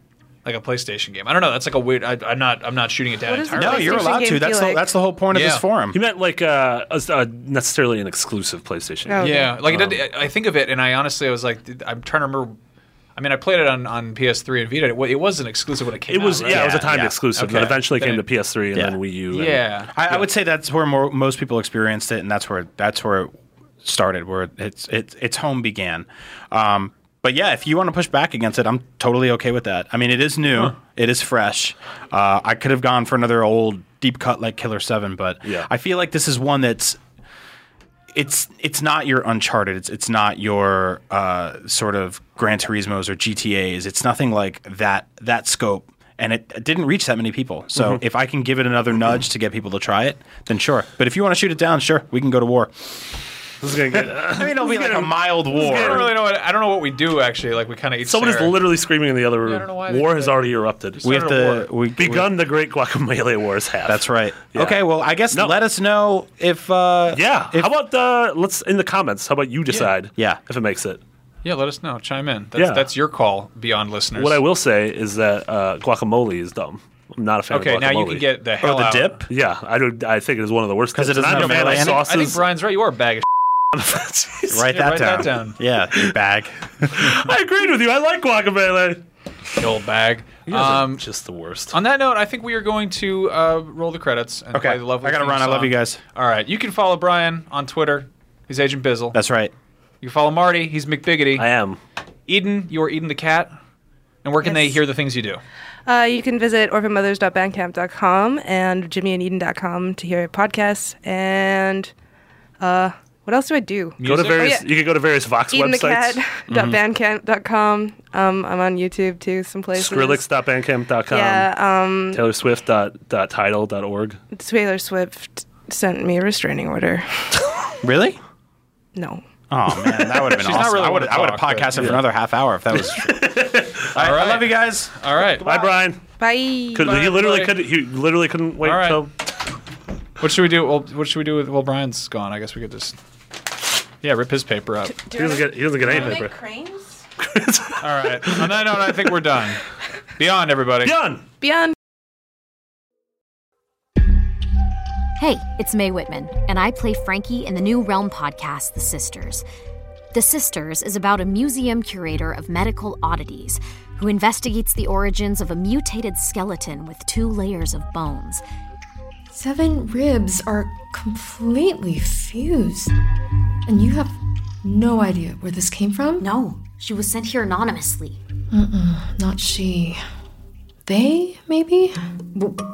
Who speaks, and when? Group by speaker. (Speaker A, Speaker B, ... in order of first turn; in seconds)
Speaker A: 0.4-4.3, 5.3-5.6, 9.2-12.6, 13.2-18.2, 19.3-19.9, 55.6-58.6, 59.4-60.3, 61.0-61.7, 71.4-74.4, 77.5-79.2, 81.3-83.3, 84.5-85.6, 89.6-91.0, 91.7-99.2, 100.0-101.5, 102.3-103.5, 104.2-105.4, 114.0-114.6, 130.4-132.0, 133.9-135.4, 136.8-137.6, 138.6-139.0, 140.2-142.9, 144.0-145.0, 145.9-146.2, 147.8-149.6, 150.2-150.9
Speaker B: 3.2-4.9, 9.1-9.5, 104.4-104.8, 105.9-111.9, 112.6-114.8, 115.5-120.3, 121.1-122.2, 124.3-127.2, 128.9-129.2, 136.2-137.1, 145.1-146.9, 151.4-151.7
Speaker C: 3.5-6.0, 16.4-17.1, 19.9-37.0, 38.1-53.0, 54.1-56.1, 61.0-62.4, 63.9-67.7, 78.6-79.2, 80.9-82.1, 84.5-87.1, 94.5-96.0, 99.1-99.5, 116.5-116.8, 127.8-128.2, 129.5-134.9
Speaker D: 5.9-9.9, 16.1-20.1, 53.6-56.1, 58.0-61.1, 62.0-64.8, 67.1-71.0, 72.5-72.9, 74.2-78.2, 79.3-82.4, 83.7-84.5, 86.9-89.0, 90.5-91.7, 101.3-101.8, 114.0-116.2, 119.8-121.5, 122.1-124.2, 131.7-132.0, 132.9-133.9, 135.4-136.0, 136.7-139.1, 145.1-146.3, 147.2-148.4, 150.8-151.2
Speaker E: 155.2-159.4, 160.1-168.4, 176.2-178.2
Speaker F: 169.3-172.9, 173.7-176.3, 178.5-180.0, 180.8-182.0